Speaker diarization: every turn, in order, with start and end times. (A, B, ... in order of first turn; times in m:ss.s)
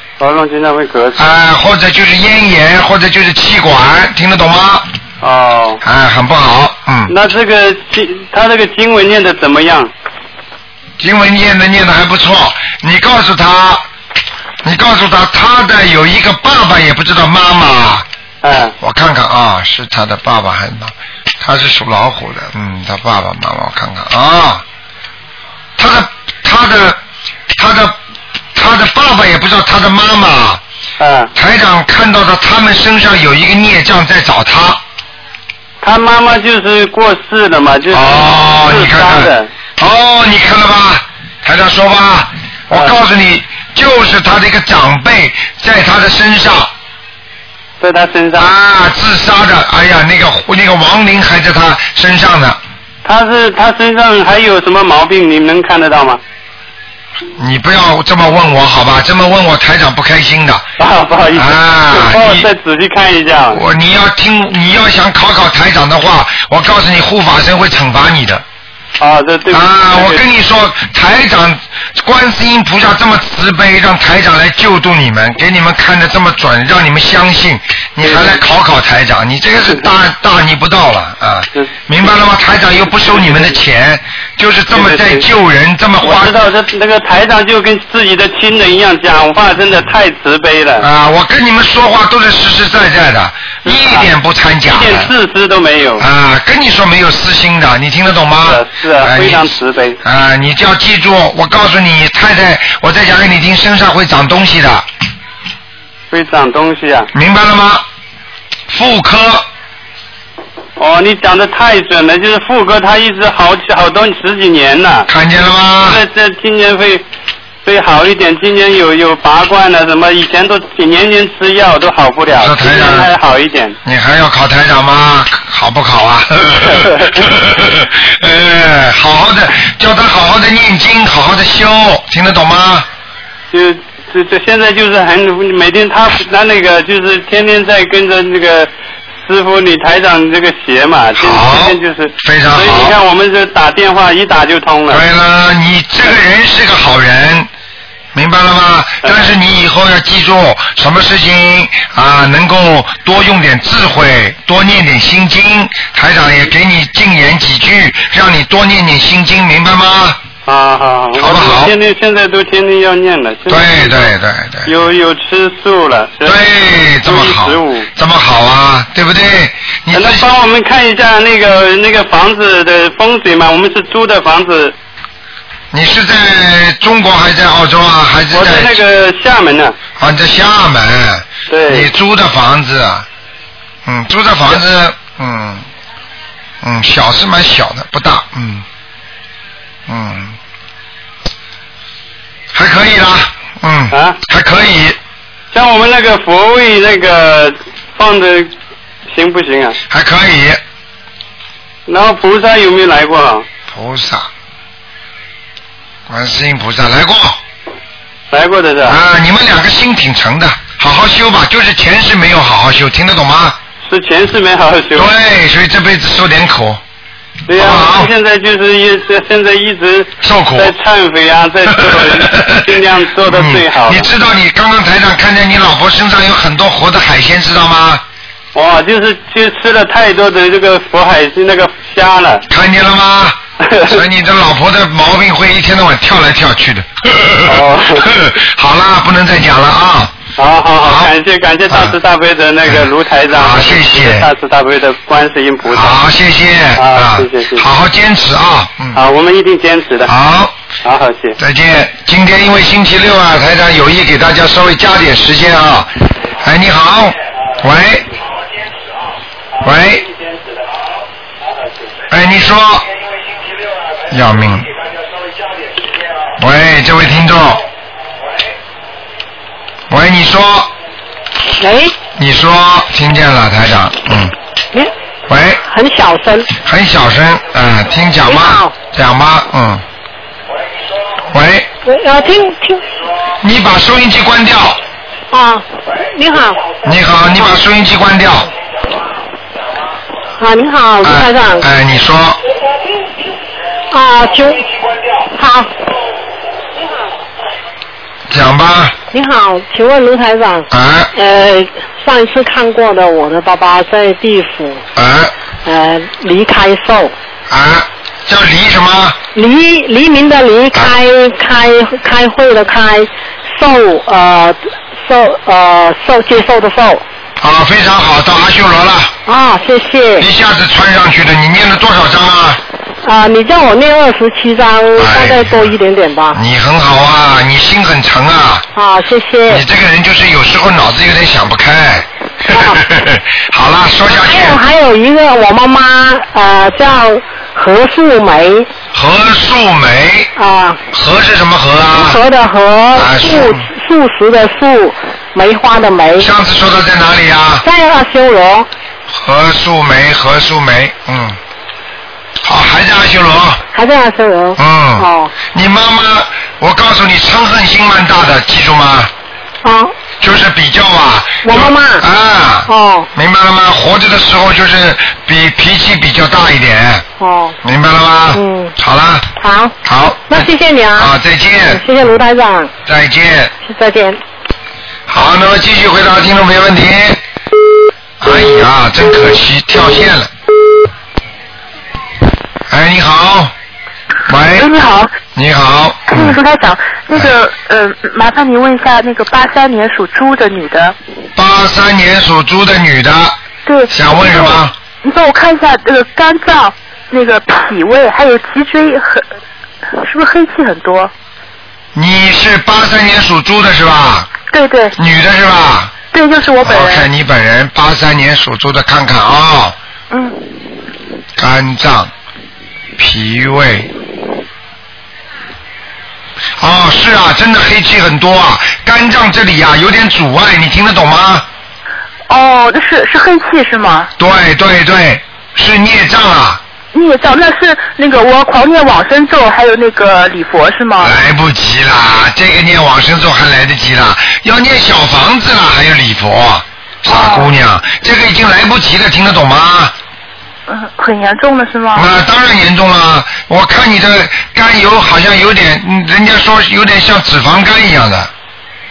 0:00.2-0:01.2 A
0:01.2-0:04.9 B
0:05.2-0:05.8 A
0:05.8-0:07.1 B
0:07.1-0:09.9 A
0:11.0-0:13.8 B
0:14.6-0:18.1 B
0:18.4-0:18.8 A
0:18.8-0:24.6 B
0:25.8-0:27.0 B
0:27.6-0:28.0 B
0:28.6-0:30.6 B
0:31.0-0:31.3 A
0:31.4-0:34.8 B
0:35.8-0:39.5 A
0:37.9-0:46.7 B
0:47.8-0:48.5 A
0:48.4-0:52.6 B
0:53.0-0:56.2 A
0:57.4-1:00.6 B
1:00.8-1:03.6 A
1:01.3-1:02.5 B
1:03.5-1:08.4 B
1:09.0-1:10.2 A
1:09.5-1:26.4 B
1:18.0-1:18.4 A
1:23.0-1:23.6 A
1:24.7-1:25.3 A
1:26.0-1:30.9 A
1:30.8-1:35.1 B
1:33.6-1:34.1 A
1:34.7-1:36.1 A
1:36.0-1:39.5 B
1:38.4-1:40.0 A
1:40.0-1:44.9 B
1:46.1-1:47.1 A
1:47.1-1:47.8 B
1:48.7-1:49.5 B
1:50.8-1:55.1 A
1:55.1-1:56.0 B
1:55.9-1:57.0 A
1:57.6-2:03.8 A
2:02.3-2:03.1 B
2:03.8-2:12.9 B
2:06.6-2:07.1 A
2:13.5-2:25.0 A
2:21.2-2:23.0 B
2:24.9-2:27.5 B
2:28.1-2:40.2 B
2:29.0-2:29.3 A
2:40.4-2:44.1 A
2:41.2-2:41.8 B
2:43.5-2:44.7 B
2:44.7-2:46.4 A
2:46.2-2:50.2 B
2:47.0-2:47.9 A
2:49.9-2:54.8 A
2:55.7-2:58.8 B
2:58.3-2:59.8 A
3:00.0-3:03.1 B
3:01.5-3:01.9 A
3:03.9-3:05.7 B
3:06.6-3:08.6 B
3:09.9-3:10.4 B
3:12.5-3:15.0 B
3:13.9-3:14.2 A
3:15.5-3:18.5 A
3:19.1-3:19.8 A
3:19.9-3:20.6 B
3:21.9-3:23.5 A
3:23.7-3:24.3 B
3:26.1-3:27.4 B
3:28.3-3:29.0 A
3:28.8-3:33.6 B
3:33.8-3:35.1 A
3:35.0-3:36.8 B
3:37.5-3:44.1 A
3:37.5-3:38.1 B
3:40.2-3:40.7 B
3:41.8-3:48.0 B
3:48.5-3:52.4 A
3:52.5-4:00.2 B
3:53.6-3:54.0 A
3:57.4-3:58.1 A
4:00.4-4:06.0 A
4:00.8-4:01.1 B
4:01.7-4:02.0 B
4:02.7-4:04.3 B
4:05.7-4:09.0 B
4:06.8-4:07.7 A
4:09.0-4:10.1 A
4:10.0-4:10.5 B
4:10.8-4:11.4 A
4:11.4-4:15.9 B
4:16.4-4:18.1 B
4:19.6-4:20.0 B
4:19.6-4:20.8 A
4:22.1-4:22.9 B
4:24.1-4:24.7 B
4:26.4-4:27.6 B
4:29.9-4:30.7 B
4:31.6-4:32.0 C
4:32.2-4:34.3 B
4:35.3-4:35.6 B
4:35.6-4:36.5 C
4:36.6-4:39.8 B
4:38.2-4:38.7 C
4:41.3-4:41.7 B
4:41.8-4:42.8 C
4:43.4-4:44.8 B
4:45.3-4:46.6 C
4:46.8-4:48.5 B
4:50.4-4:51.7 C
4:51.0-4:52.4 B
4:53.9-4:54.7 C
4:55.3-4:55.7 C
4:58.3-4:59.0 B
4:59.1-5:04.8 C
5:00.7-5:01.1 B
5:05.0-5:05.3 B
5:05.6-5:07.1 C
5:07.5-5:09.2 B
5:09.3-5:17.0 C
5:17.4-5:19.1 B
5:19.3-5:20.3 C
5:20.2-5:22.6 B
5:23.0-5:26.4 C
5:25.0-5:25.7 B
5:26.4-5:28.6 B
5:28.8-5:29.7 C
5:29.5-5:34.6 B
5:32.5-5:32.8 C
5:34.1-5:38.7 C
5:38.9-5:40.3 B
5:40.4-5:40.8 C
5:40.9-5:42.2 B
5:41.9-5:46.3 C
5:43.0-5:43.6 B
5:46.2-5:47.6 B
5:47.6-5:48.7 C
5:49.1-5:51.4 B
5:52.4-5:53.6 B
5:53.7-5:55.3 C
5:54.6-5:59.1 B
5:59.6-5:59.9 C
6:00.2-6:07.0 B
6:01.4-6:02.1 C
6:02.7-6:03.1 C
6:07.2-6:07.6 C
6:07.6-6:09.3 B
6:08.3-6:08.8 C
6:09.4-6:09.7 C
6:09.8-6:10.4 B
6:10.3-6:12.7 C
6:11.0-6:11.8 B
6:12.9-6:13.5 B
6:13.6-6:14.2 C
6:15.1-6:17.2 B
6:18.2-6:20.3 B
6:22.7-6:23.5 B
6:24.3-6:24.7 B
6:24.5-6:25.1 D
6:25.3-6:26.4 B
6:26.1-6:31.0 D
6:31.4-6:33.4 B
6:33.7-6:39.2 D
6:33.9-6:34.7 B
6:39.9-6:41.1 D
6:42.0-6:44.3 B
6:44.5-6:45.0 D
6:45.0-6:45.9 B
6:46.1-6:47.1 D
6:46.6-6:49.8 B
6:50.1-6:50.6 D
6:51.4-6:52.1 B
6:53.0-6:53.9 B
6:56.6-7:01.5 B
7:02.3-7:04.1 D
7:04.2-7:06.6 B
7:06.9-7:11.2 D
7:11.0-7:20.0 B
7:17.1-7:17.5 D
7:20.7-7:22.1 D
7:22.0-7:28.3 B